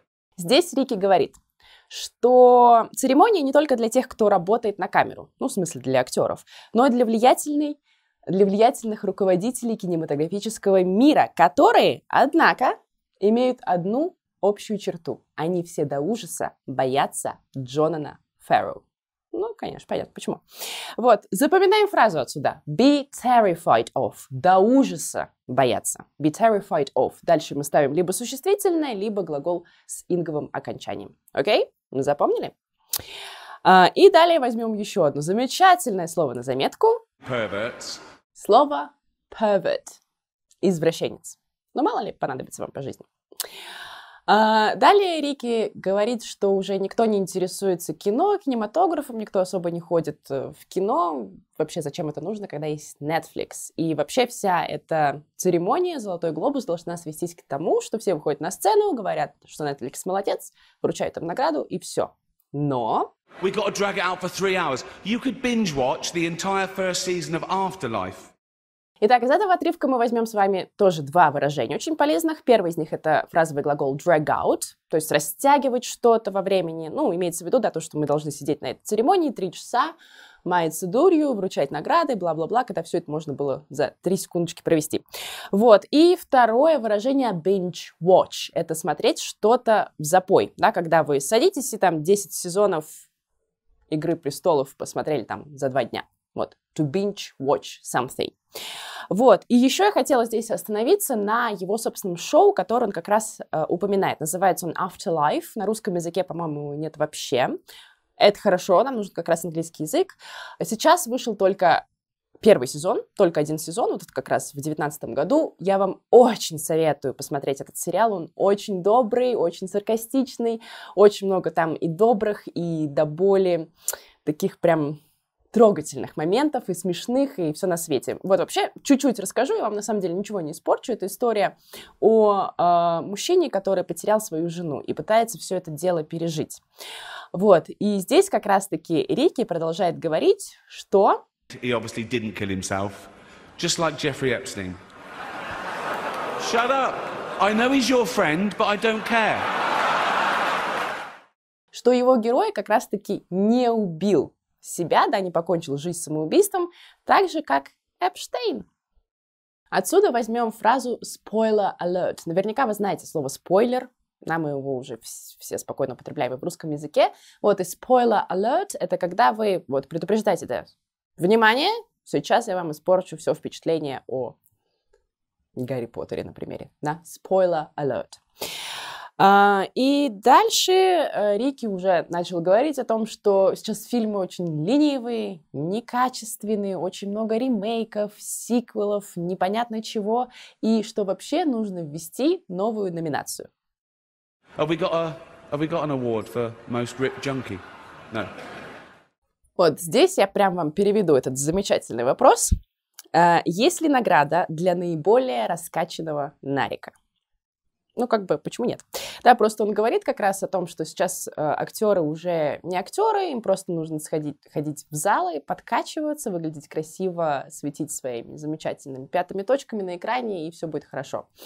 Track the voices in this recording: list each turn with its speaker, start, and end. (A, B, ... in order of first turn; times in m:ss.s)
0:00.4-0:01.4 A
0:01.9-0:20.4 A
0:21.0-0:32.6 A
0:33.6-0:37.0 A
0:37.2-0:38.0 B
0:38.4-0:40.0 A
0:40.6-0:43.1 A
0:44.3-1:03.1 A
1:03.4-1:08.3 B
1:09.0-1:33.1 A
1:33.9-1:38.4 A
1:39.1-1:47.6 A
1:48.2-1:51.8 A
1:52.4-2:03.7 A
2:04.2-2:05.0 A
2:05.5-2:16.6 A
2:17.3-2:21.2 A
2:21.6-2:24.8 B
2:26.4-2:29.4 B
2:31.7-2:38.7 A
2:39.7-2:54.4 A
2:55.6-2:58.2 A
2:59.2-3:13.5 A
3:14.6-3:18.3 B
3:19.6-3:22.5 A
3:23.1-3:27.0 A
3:28.0-3:41.3 A